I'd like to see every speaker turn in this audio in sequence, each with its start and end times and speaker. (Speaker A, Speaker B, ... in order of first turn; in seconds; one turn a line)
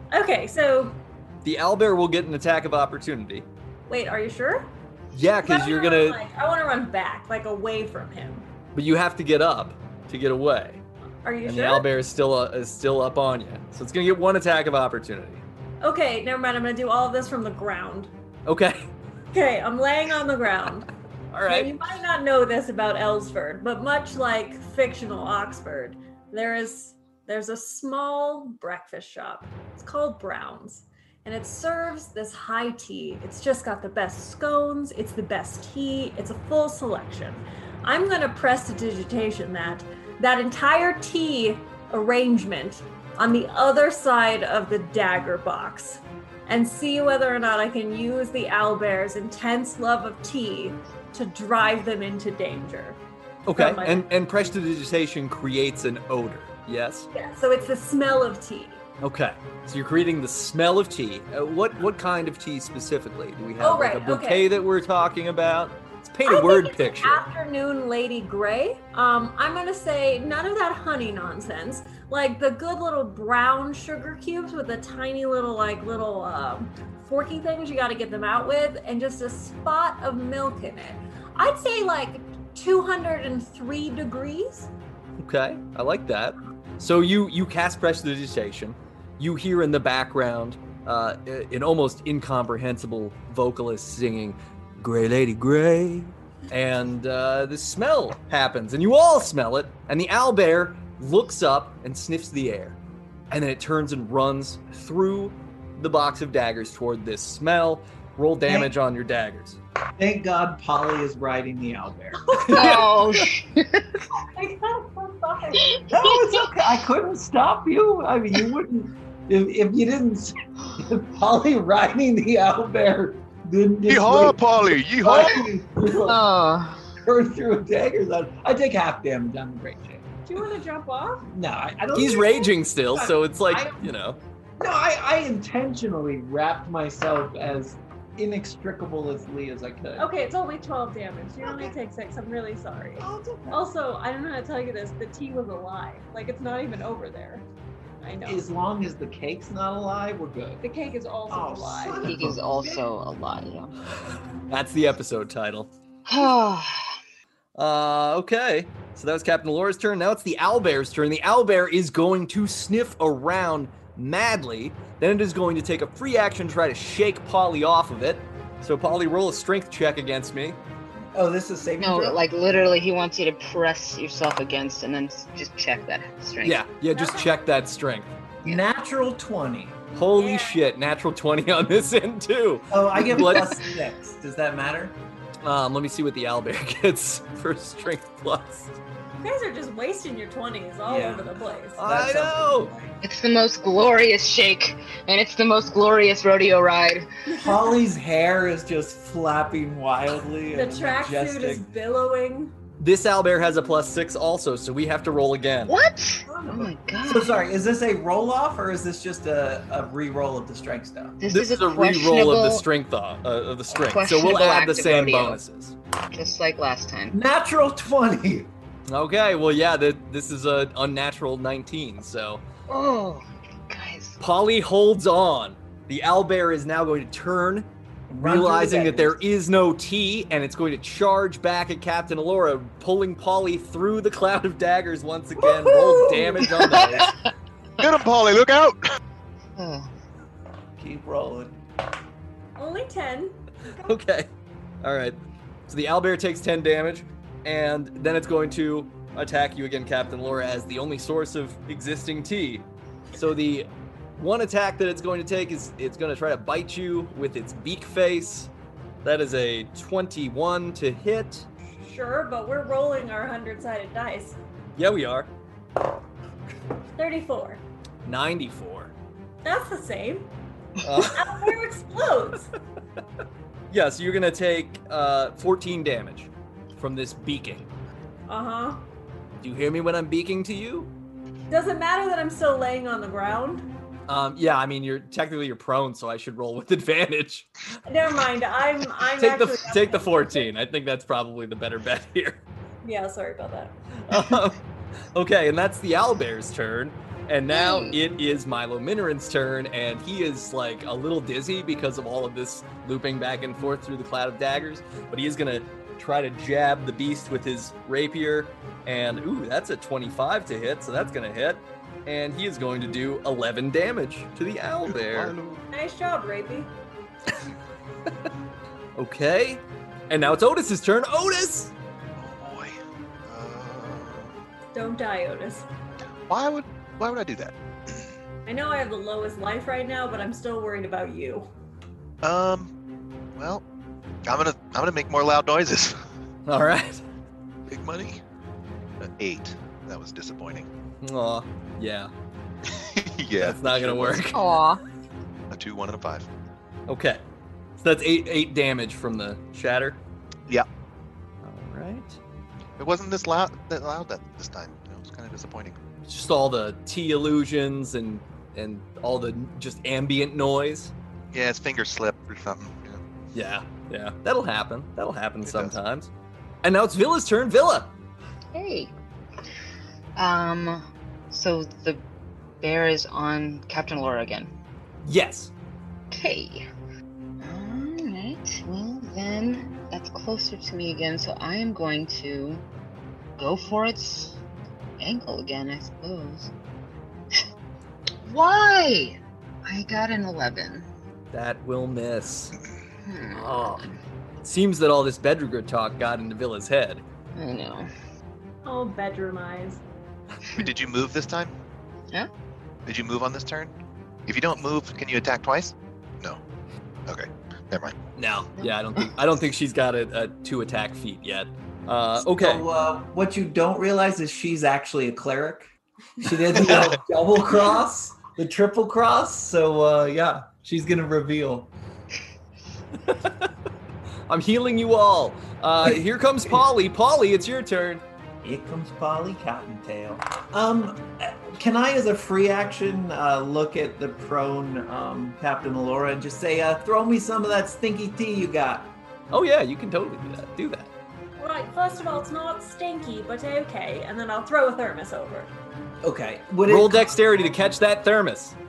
Speaker A: 0.1-1.0
Speaker B: 1.4-3.5
Speaker A: 3.9-4.7
Speaker B: 5.1-6.2
Speaker A: 5.4-8.5
Speaker B: 8.7-10.8
Speaker A: 11.2-11.9
Speaker B: 11.4-15.4
Speaker A: 15.8-18.1
Speaker B: 18.5-18.9
Speaker A: 19.3-20.9
Speaker B: 21.3-21.7
Speaker A: 21.5-53.0
Speaker B: 53.5-57.1
Speaker A: 53.5-54.0
Speaker A: 57.1-58.8
Speaker B: 59.0-67.2
Speaker A: 63.6-64.5
Speaker A: 66.2-84.7
Speaker B: 85.2-102.8
Speaker B: 103.3-109.6
Speaker C: 108.5-108.7
Speaker C: 110.0-112.8
Speaker A: 112.3-112.8
Speaker D: 112.5-113.9
Speaker B: 112.6-112.8
Speaker A: 114.3-115.8
Speaker D: 115.8-116.2
Speaker C: 115.9-126.3
Speaker E: 123.9-125.4
Speaker D: 126.0-126.8
Speaker C: 127.0-130.1
Speaker A: 130.3-131.2
Speaker C: 131.2-133.9
Speaker B: 131.9-134.2
Speaker C: 134.6-140.1
Speaker A: 140.0-147.4
Speaker C: 141.4-141.7
Speaker C: 143.0-143.6
Speaker A: 148.0-148.4
Speaker C: 148.3-150.6
Speaker A: 150.6-152.1
Speaker C: 151.3-152.8
Speaker D: 152.0-153.7
Speaker B: 154.5-155.7
Speaker D: 156.1-157.0
Speaker B: 157.6-170.6
Speaker C: 171.1-172.3
Speaker D: 171.8-176.6
Speaker B: 176.4-178.2
Speaker A: 176.9-177.3
Speaker C: 178.4-179.8
Speaker B: 179.9-183.5
Speaker A: 180.2-180.6
Speaker C: 182.7-185.0
Speaker B: 185.4-188.8
Speaker A: 189.2-191.8
Speaker C: 190.9-193.0
Speaker B: 191.8-192.7
Speaker D: 193.0-197.1
Speaker A: 197.3-197.6
Speaker C: 197.4-201.7
Speaker A: 200.5-202.5
Speaker B: 202.8-205.7
Speaker D: 205.7-207.4
Speaker C: 206.3-211.2
Speaker D: 211.2-212.7
Speaker B: 211.3-215.8
Speaker D: 213.7-215.4
Speaker D: 216.1-217.2
Speaker C: 217.1-218.5
Speaker B: 218.9-222.4
Speaker D: 222.7-224.2
Speaker B: 224.2-227.7
Speaker C: 228.1-229.2
Speaker B: 228.2-237.2
Speaker C: 235.6-236.5
Speaker D: 236.5-237.3
Speaker E: 237.8-238.8
Speaker D: 239.6-239.9
Speaker C: 240.8-241.6
Speaker A: 242.6-243.3
Speaker B: 243.8-244.3
Speaker B: 244.8-258.5
Speaker B: 259.0-261.5
Speaker A: 261.8-264.4
Speaker B: 264.8-265.3
Speaker A: 267.0-267.6
Speaker B: 268.1-268.9
Speaker A: 269.4-270.3
Speaker B: 270.8-271.5
Speaker A: 271.0-272.5
Speaker B: 273.7-277.7
Speaker A: 278.3-278.8
Speaker B: 279.4-280.9
Speaker A: 281.5-283.6
Speaker B: 284.1-287.5
Speaker A: 287.9-290.5
Speaker B: 289.2-292.4
Speaker A: 292.8-293.7
Speaker B: 294.1-294.6
Speaker B: 295.1-315.3
Speaker D: 297.5-298.0
Speaker E: 314.9-315.6
Speaker A: 315.7-316.7
Speaker B: 319.0-321.7
Speaker E: 322.2-324.3
Speaker A: 324.7-325.7
Speaker E: 326.3-328.0
Speaker A: 328.5-331.5
Speaker E: 332.2-332.7
Speaker E: 333.4-333.6
Speaker E: 334.3-336.0
Speaker B: 336.5-337.0
Speaker E: 337.7-338.2
Speaker E: 339.0-340.7
Speaker B: 341.0-342.1
Speaker E: 342.7-344.3
Speaker B: 343.4-344.4
Speaker D: 344.3-344.8
Speaker E: 345.5-346.3
Speaker B: 346.9-347.2
Speaker B: 347.8-350.0
Speaker B: 351.4-352.2
Speaker E: 352.8-355.8
Speaker B: 356.1-360.9
Speaker E: 361.3-363.0
Speaker B: 363.3-366.1
Speaker E: 365.4-365.7
Speaker B: 366.6-367.9
Speaker D: 368.5-368.9
Speaker D: 370.2-372.0
Speaker D: 372.6-374.5
Speaker B: 375.0-375.5
Speaker D: 376.1-376.6
Speaker D: 377.4-382.6
Speaker D: 383.4-384.4
Speaker D: 385.0-386.5
Speaker D: 388.2-390.9
Speaker B: 391.3-392.6
Speaker D: 393.0-394.0
Speaker B: 393.3-393.8
Speaker B: 394.4-397.0
Speaker D: 397.4-397.9
Speaker A: 398.6-399.8
Speaker E: 400.5-401.5
Speaker E: 402.9-403.7
Speaker E: 404.3-406.4
Speaker E: 407.1-408.0
Speaker B: 408.2-412.6
Speaker D: 408.6-409.0
Speaker C: 412.2-415.7
Speaker C: 416.2-421.7
Speaker B: 423.0-423.5
Speaker B: 424.3-428.0
Speaker C: 428.4-438.9
Speaker B: 439.3-440.9
Speaker A: 441.4-445.5
Speaker C: 446.0-447.2
Speaker B: 446.7-448.6